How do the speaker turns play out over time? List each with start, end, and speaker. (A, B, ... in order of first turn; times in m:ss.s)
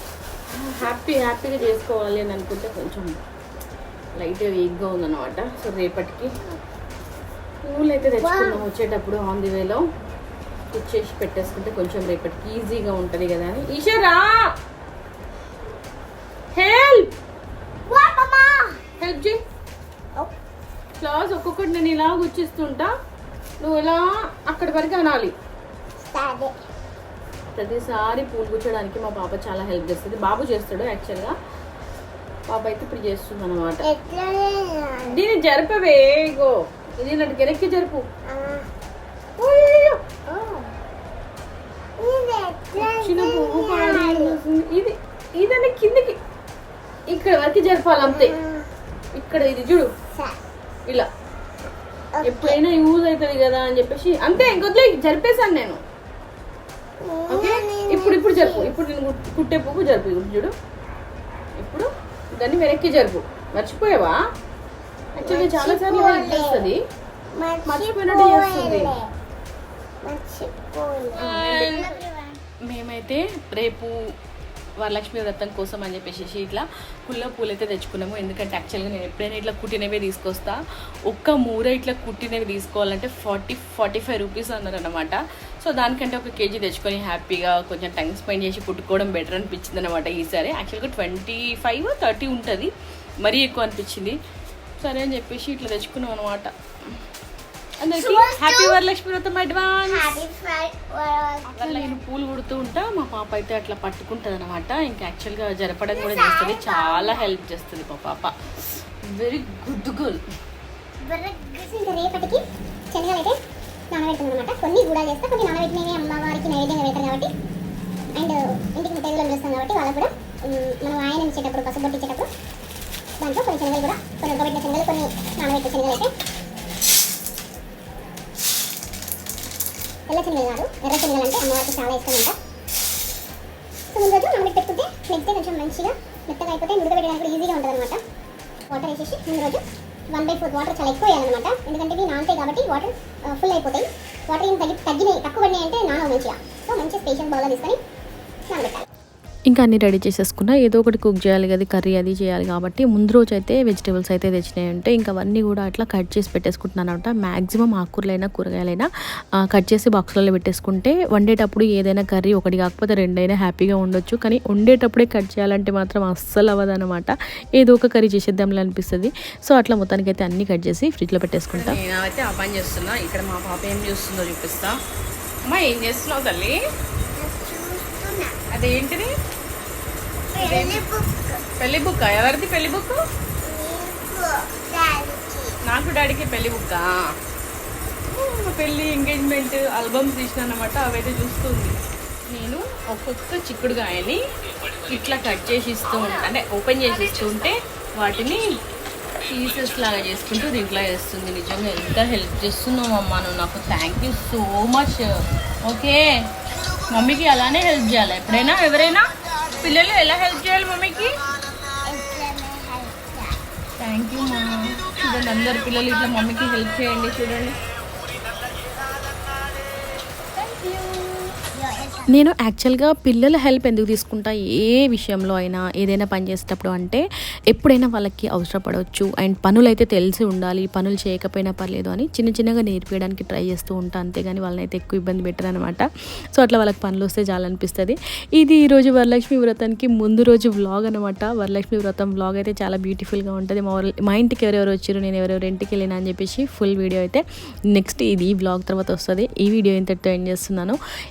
0:00.5-0:03.2 A
0:04.2-0:06.3 A
0:07.6-0:09.8 A
0:08.2-0:08.6 B
0:10.7-0:14.5 A
0:16.5-0:17.1 A
0:17.9-0:18.8 B
0:19.0-0:19.4 A
0:21.0-0:22.9 A
0:23.6-0:25.3 A
0:26.0-0:26.6 B
0:27.6-0:31.3 A
0:32.5-0:33.8 A
0:33.8-0:35.2 B
0:35.0-0:38.0 A
0:38.3-0:38.7 B
0:39.4-0:39.9 A
0:39.5-0:40.7 B
0:42.0-0:44.4 B
0:42.8-0:46.2 A
0:47.1-0:48.3 A
0:48.0-0:48.7 B
0:49.1-0:49.9 A
0:50.1-0:50.4 B
0:52.1-0:52.6 B
0:52.2-0:55.8 A
0:57.0-0:58.8 B
0:57.3-1:00.5 A
1:01.6-1:04.2 A
1:05.2-1:06.7 B
1:05.2-1:06.8 A
1:07.3-1:09.1 B
1:07.6-1:08.9 A
1:10.0-1:12.4 B
1:11.2-1:12.0 A
1:12.7-1:14.0 A
1:14.8-1:32.7 A
1:33.2-1:34.2 A
1:34.8-1:36.5 A
1:37.8-1:40.2 A
1:38.0-1:38.8 B
1:39.9-1:42.0 B
1:41.5-1:50.2 A
1:45.9-1:47.3 B
1:51.0-1:53.4 B
1:53.9-1:57.3 B
1:58.1-2:02.3 B
2:03.2-2:06.1 B
2:10.1-2:12.4 B
2:13.9-2:18.0 B
2:18.7-2:27.8 B
2:28.5-2:28.8 B
2:29.5-2:38.9 C
2:39.4-2:51.8 C
2:51.5-2:54.8 A
2:55.5-2:56.6 A
2:57.1-2:58.4 B
2:58.5-2:59.1 A
3:00.3-3:01.4 B
3:00.4-3:00.8 A
3:01.6-3:03.0 A
3:03.4-3:05.6 B
3:05.6-3:07.1 A
3:08.1-3:11.8 A
3:12.3-3:14.2 A
3:14.8-3:18.6 A
3:19.3-3:26.1 A
3:26.9-3:31.1 A
3:31.8-3:33.4 B
3:33.8-3:37.6 A
3:40.3-3:42.2 B
3:42.1-4:10.8 C